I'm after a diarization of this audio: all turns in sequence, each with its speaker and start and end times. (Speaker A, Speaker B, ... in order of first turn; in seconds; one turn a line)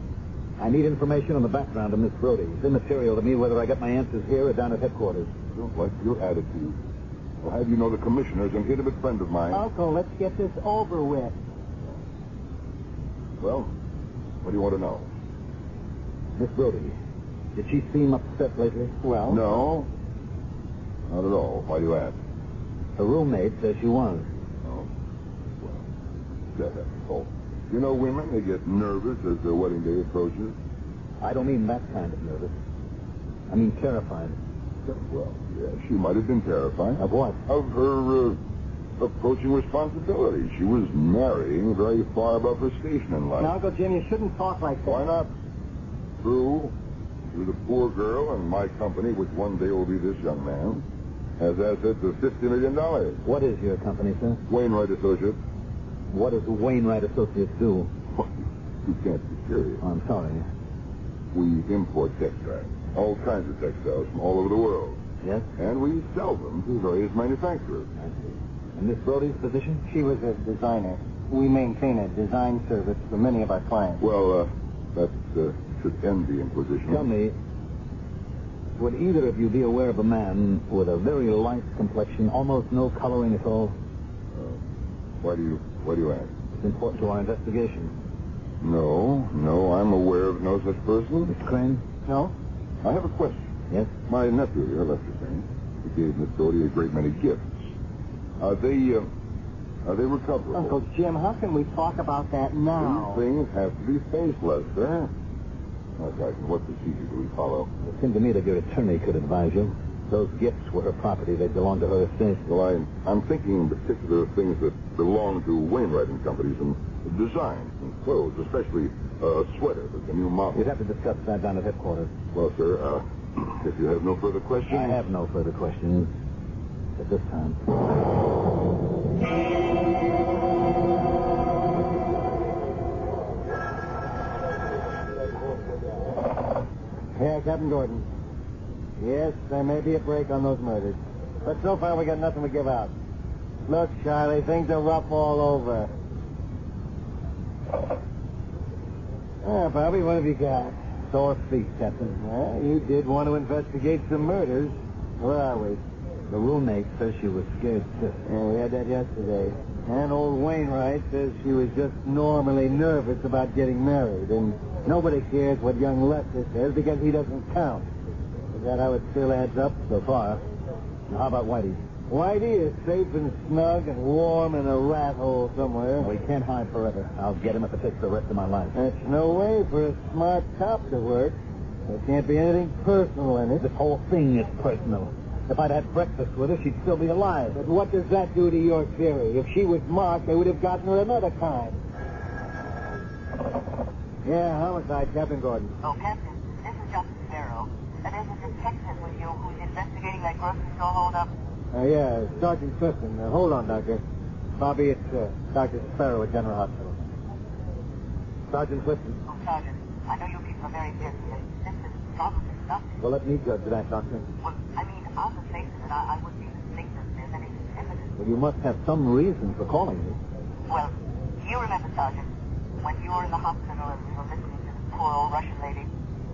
Speaker A: 0.6-5.3
Speaker B: 5.5-6.8
Speaker B: 7.4-9.6
Speaker C: 9.5-11.3
Speaker B: 13.4-13.7
Speaker B: 14.4-15.1
Speaker A: 16.4-17.0
Speaker A: 17.5-18.9
Speaker C: 19.0-19.4
Speaker B: 19.3-19.9
Speaker B: 21.1-22.1
Speaker A: 23.0-24.3
Speaker B: 25.6-25.8
Speaker B: 26.5-30.5
Speaker A: 31.2-32.5
Speaker A: 33.5-34.4
Speaker B: 34.9-38.4
Speaker A: 37.0-37.4
Speaker B: 39.0-43.5
Speaker C: 43.4-45.1
Speaker B: 44.8-45.3
Speaker B: 46.2-46.7
Speaker B: 47.3-50.8
Speaker B: 51.4-53.2
Speaker A: 53.2-54.4
Speaker B: 54.5-55.4
Speaker A: 56.1-57.9
Speaker B: 58.8-59.8
Speaker A: 59.8-60.4
Speaker B: 61.3-65.0
Speaker B: 65.6-67.9
Speaker A: 68.0-69.8
Speaker C: 69.8-74.0
Speaker B: 74.0-77.1
Speaker A: 76.9-77.3
Speaker A: 78.8-83.8
Speaker B: 84.3-84.6
Speaker B: 85.2-86.3
Speaker A: 86.6-87.9
Speaker B: 88.6-91.3
Speaker A: 91.2-91.8
Speaker C: 92.0-92.3
Speaker B: 92.8-93.5
Speaker B: 94.1-97.7
Speaker B: 98.4-99.1
Speaker B: 99.8-100.8
Speaker C: 100.5-103.2
Speaker B: 102.8-105.1
Speaker B: 106.0-107.7
Speaker A: 107.8-112.4
Speaker B: 112.5-120.6
Speaker A: 120.5-122.1
Speaker B: 122.3-125.0
Speaker A: 124.7-126.1
Speaker A: 127.0-127.6
Speaker C: 137.1-138.1
Speaker C: 139.0-142.9
Speaker C: 143.7-145.9
Speaker C: 149.4-150.8
Speaker A: 151.1-152.2
Speaker C: 152.2-155.8
Speaker A: 156.3-158.2
Speaker C: 158.2-167.9
Speaker C: 168.5-169.8
Speaker A: 169.9-170.4
Speaker A: 171.1-171.8
Speaker C: 172.1-176.1
Speaker A: 176.0-178.8
Speaker C: 178.7-183.7
Speaker A: 183.6-187.6
Speaker C: 187.5-191.8
Speaker C: 194.2-195.7
Speaker D: 195.8-201.3
Speaker C: 201.7-204.0
Speaker C: 204.6-207.1
Speaker A: 208.5-209.2
Speaker D: 209.3-212.9
Speaker A: 213.0-214.2
Speaker D: 214.4-218.1
Speaker A: 218.2-220.2
Speaker D: 220.7-222.3
Speaker D: 222.8-225.9